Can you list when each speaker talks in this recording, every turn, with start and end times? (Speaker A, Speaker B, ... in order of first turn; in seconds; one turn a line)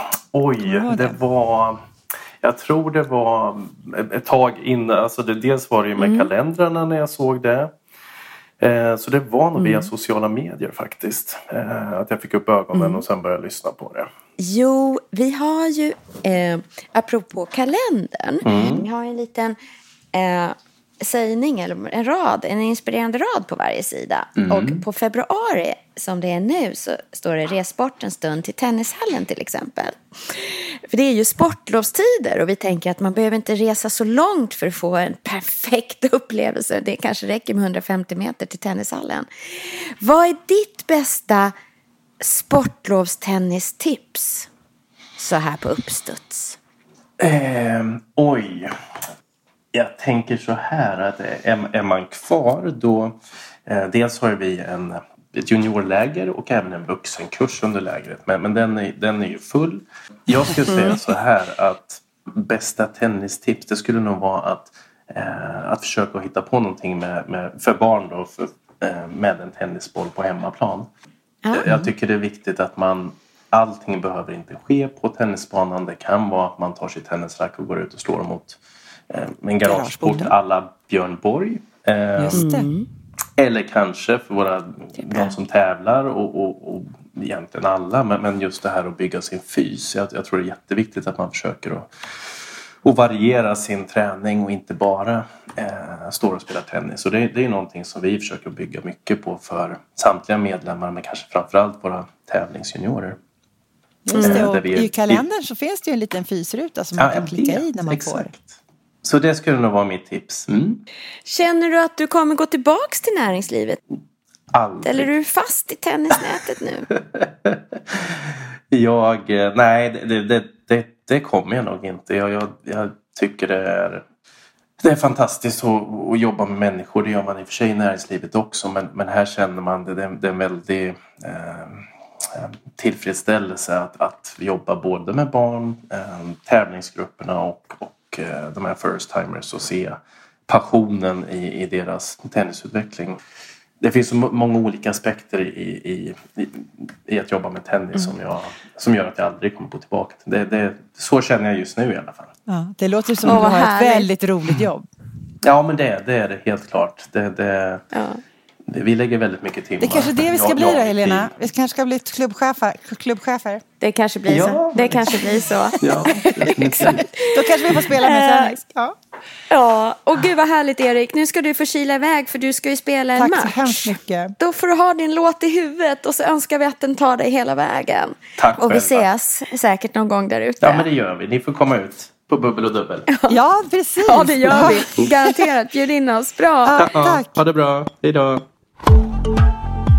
Speaker A: 0.3-1.8
Speaker B: 0.6-1.2
Speaker A: 2.4-7.7
Speaker C: 6.0-6.3
Speaker A: 8.6-14.1
Speaker C: 9.6-9.9
Speaker C: 12.7-13.0
Speaker C: 14.4-19.6
Speaker A: 18.4-18.9
Speaker C: 20.1-41.5
Speaker A: 24.4-24.8
Speaker C: 42.2-44.5
Speaker C: 45.2-46.6
Speaker A: 47.2-48.7
Speaker A: 49.7-70.9
Speaker C: 60.7-61.0
Speaker C: 71.4-71.7
Speaker A: 71.5-82.4
Speaker B: 79.6-80.3
Speaker B: 82.2-82.7
Speaker C: 82.3-82.9
Speaker A: 83.4-103.2
Speaker B: 104.0-108.3
Speaker C: 104.1-104.5
Speaker A: 104.2-105.2
Speaker A: 107.0-110.8
Speaker C: 111.2-113.8
Speaker A: 114.5-115.1
Speaker C: 114.8-116.9
Speaker A: 117.0-124.0
Speaker A: 124.8-143.2
Speaker A: 143.8-152.3
Speaker B: 152.5-154.8
Speaker C: 153.2-154.1
Speaker A: 155.4-157.8
Speaker C: 157.9-158.2
Speaker A: 158.7-161.3
Speaker B: 159.8-163.6
Speaker C: 163.8-168.6
Speaker A: 164.2-167.1
Speaker B: 166.4-168.9
Speaker C: 169.5-180.8
Speaker B: 173.2-174.3
Speaker A: 178.4-179.1
Speaker A: 180.6-183.1
Speaker C: 183.1-183.4
Speaker B: 183.3-185.1
Speaker C: 184.0-186.8
Speaker B: 186.6-187.2
Speaker A: 186.7-188.4